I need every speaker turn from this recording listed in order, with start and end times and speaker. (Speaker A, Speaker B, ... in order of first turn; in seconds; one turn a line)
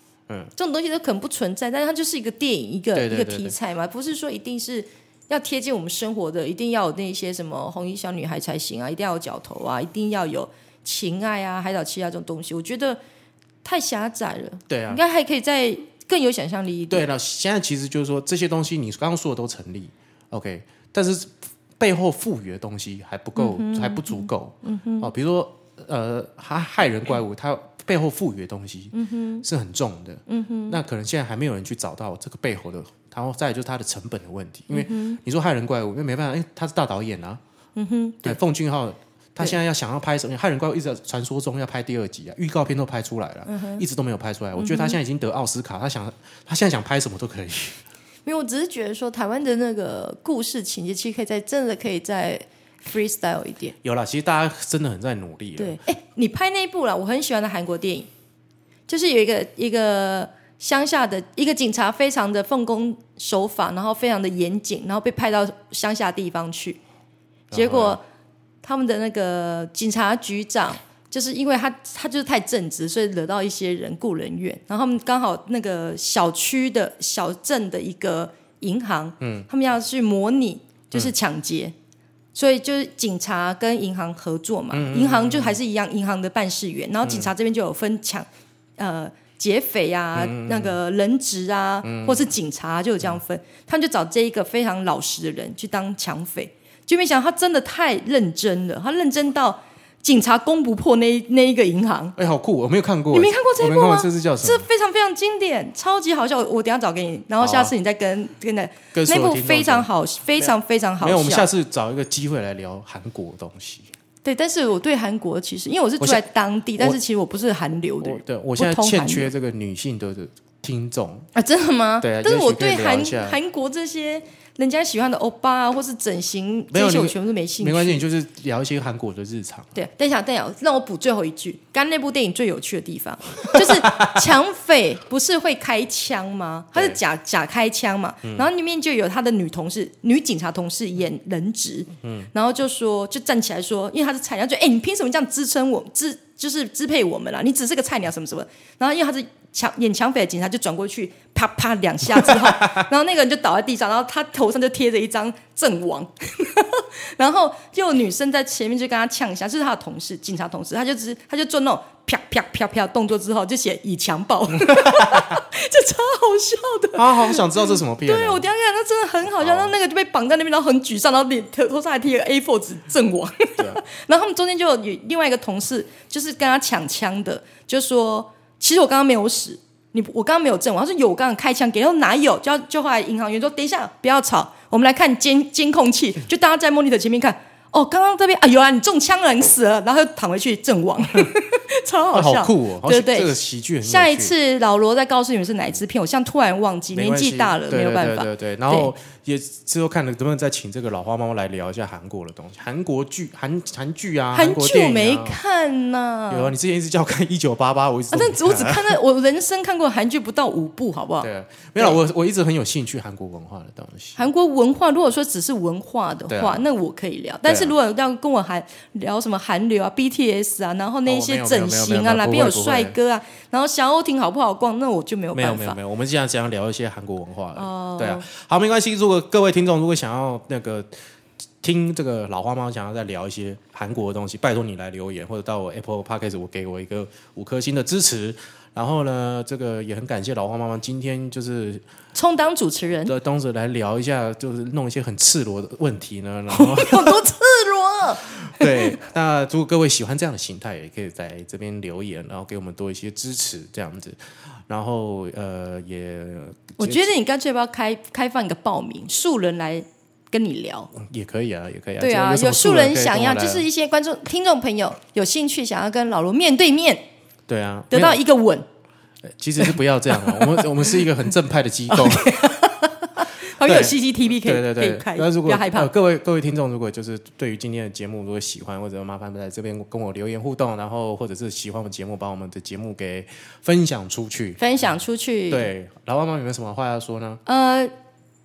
Speaker A: 0.6-13.0
Speaker B: 2.9-3.6
Speaker A: 13.6-17.1
Speaker B: 14.7-15.0
Speaker B: 16.9-37.4
Speaker A: 23.4-25.1
Speaker A: 28.9-29.4
Speaker A: 30.3-30.8
Speaker A: 34.7-35.2
Speaker A: 37.8-38.4
Speaker B: 38.2-47.8
Speaker A: 43.5-43.8
Speaker A: 44.6-45.0
Speaker A: 48.3-53.8
Speaker B: 53.8-55.8
Speaker A: 55.6-58.1
Speaker A: 58.9-66.8
Speaker B: 67.5-68.0
Speaker A: 67.5-68.0
Speaker A: 68.6-81.8
Speaker B: 79.2-79.5
Speaker A: 82.3-88.3
Speaker B: 84.7-85.6
Speaker B: 87.0-87.3
Speaker A: 88.8-102.2
Speaker B: 90.2-90.8
Speaker B: 91.8-92.3
Speaker B: 102.2-104.7
Speaker A: 103.1-111.5
Speaker B: 107.4-107.7
Speaker B: 108.9-113.9
Speaker A: 114.2-119.3
Speaker B: 118.0-121.3
Speaker A: 121.3-128.0
Speaker B: 122.0-123.4
Speaker B: 126.7-129.8
Speaker A: 129.7-198.9
Speaker B: 133.5-134.2
Speaker B: 142.0-142.3
Speaker B: 152.2-152.8
Speaker B: 164.6-165.4
Speaker B: 166.9-168.4
Speaker B: 169.4-169.7
Speaker B: 192.1-194.3
Speaker B: 196.9-205.4
Speaker A: 204.3-206.5
Speaker B: 206.3-209.0
Speaker A: 208.1-212.0
Speaker B: 211.2-214.2
Speaker A: 214.2-225.8
Speaker B: 216.3-216.7
Speaker B: 217.4-217.8
Speaker B: 221.1-222.9
Speaker B: 225.3-230.9
Speaker A: 227.6-228.2
Speaker B: 231.6-241.8
Speaker A: 242.1-243.1
Speaker B: 243.1-247.2
Speaker A: 246.5-249.0
Speaker B: 248.2-257.1
Speaker A: 256.8-260.9
Speaker B: 260.9-263.7
Speaker A: 262.0-267.0
Speaker B: 267.5-268.2
Speaker A: 267.9-268.6
Speaker B: 269.2-272.6
Speaker A: 269.7-271.0
Speaker A: 271.9-275.9
Speaker B: 273.6-284.6
Speaker A: 284.6-285.7
Speaker B: 285.5-287.4
Speaker A: 287.5-287.9